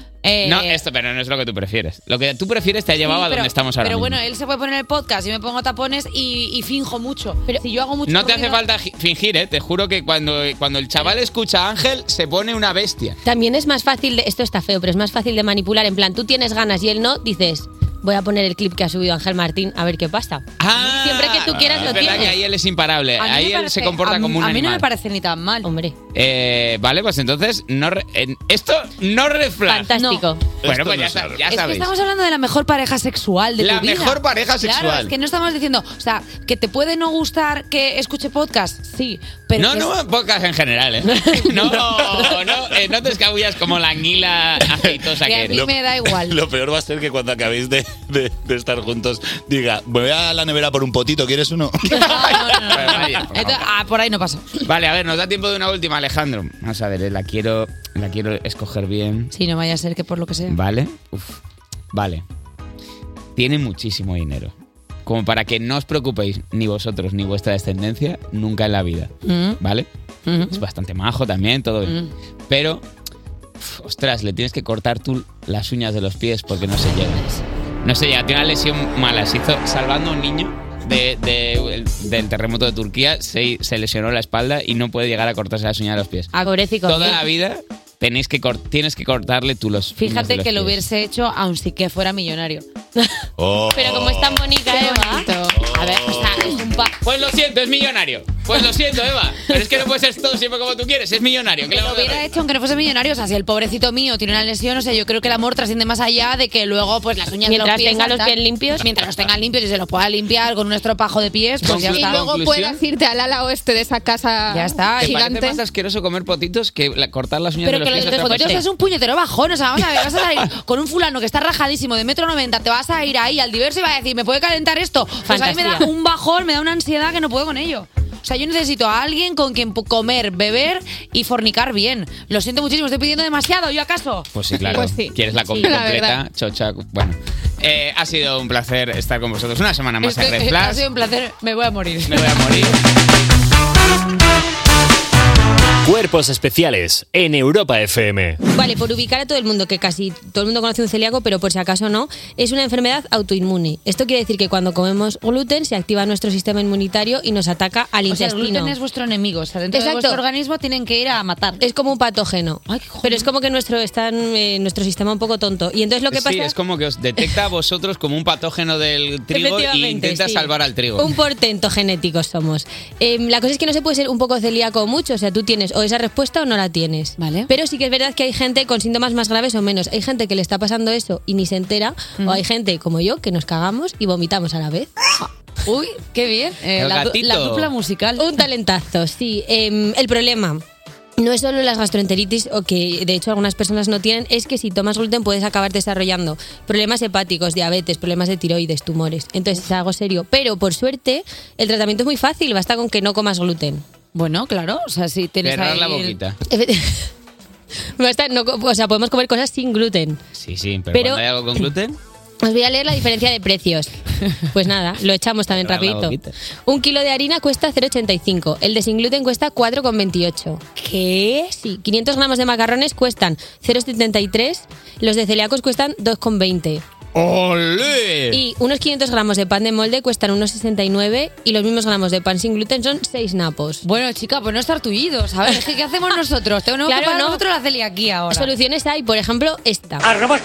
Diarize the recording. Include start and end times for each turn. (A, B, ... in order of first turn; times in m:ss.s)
0:00.2-0:00.8 A
0:00.4-0:04.2 B
0:03.0-0:08.6 A
0:08.0-0:13.2 B
0:13.2-0:22.4 C
0:20.6-0:24.8 B
0:21.6-0:21.9 D
0:21.9-0:22.3 A
0:23.2-0:25.7 A
0:25.6-0:25.9 C
0:26.1-0:29.9 B
0:29.7-0:30.4 C
0:29.9-0:30.3 A
0:30.6-0:31.5 D
0:30.6-0:31.9 B
0:31.4-0:39.9 A
0:33.6-0:35.1 B
0:39.6-0:45.6 B
0:41.4-0:41.8 A
0:45.2-0:46.4 A
0:45.5-0:52.0 D
0:51.9-0:54.6 A
0:52.1-0:53.6 B
0:54.6-0:59.3 B
0:59.3-1:00.6 A
1:00.5-1:01.4 B
1:01.9-1:02.2 B
1:03.4-1:04.5 B
1:05.0-1:09.9 B
1:09.2-1:09.6 A
1:10.2-1:10.6 A
1:10.5-1:12.0 B
1:11.8-1:12.1 A
1:12.5-1:12.8 B
1:13.6-1:17.2 B
1:17.8-1:26.3 B
1:26.3-1:27.2 A
1:26.4-1:27.2 C
1:26.8-1:30.8 B
1:30.0-1:32.6 A
1:33.4-1:34.6 D
1:33.7-1:35.4 C
1:34.7-1:36.9 A
1:35.5-1:36.5 D
1:37.0-1:42.2 B
1:41.7-1:52.2 A
1:47.4-1:48.8 C
1:51.6-1:52.8 B
1:51.9-1:55.6 E
1:54.5-1:55.3 A
1:55.0-1:58.6 B
1:57.6-2:14.3 A
1:57.9-1:58.6 C
2:05.2-2:05.9 C
2:14.3-2:20.8 B
2:14.6-2:16.2 E
2:20.0-2:22.8 A
2:22.0-2:22.8 B
2:25.8-2:28.4 F
2:28.5-2:38.7 C
2:38.1-2:41.6 A
2:39.7-2:40.2 C
2:41.6-2:46.5 C
2:42.7-2:43.3 A
2:46.1-2:51.1 B
2:49.3-3:04.9 C
2:57.2-2:57.5 A
3:05.6-3:08.3 A
3:06.8-3:07.7 B
3:08.2-3:10.6 C
3:11.2-3:23.8 C
3:24.1-3:26.2 A
3:25.4-3:26.4 B
3:26.5-3:27.1 C
3:28.0-3:30.2 C
3:30.4-3:32.0 B
3:30.9-3:31.2 C
3:32.4-3:33.9 C
3:34.5-3:46.8 C
3:35.5-3:36.3 B
3:47.1-3:48.4 B
3:48.3-3:53.8 C
3:53.8-3:58.5 A
3:56.8-3:57.4 C
3:58.3-4:00.1 C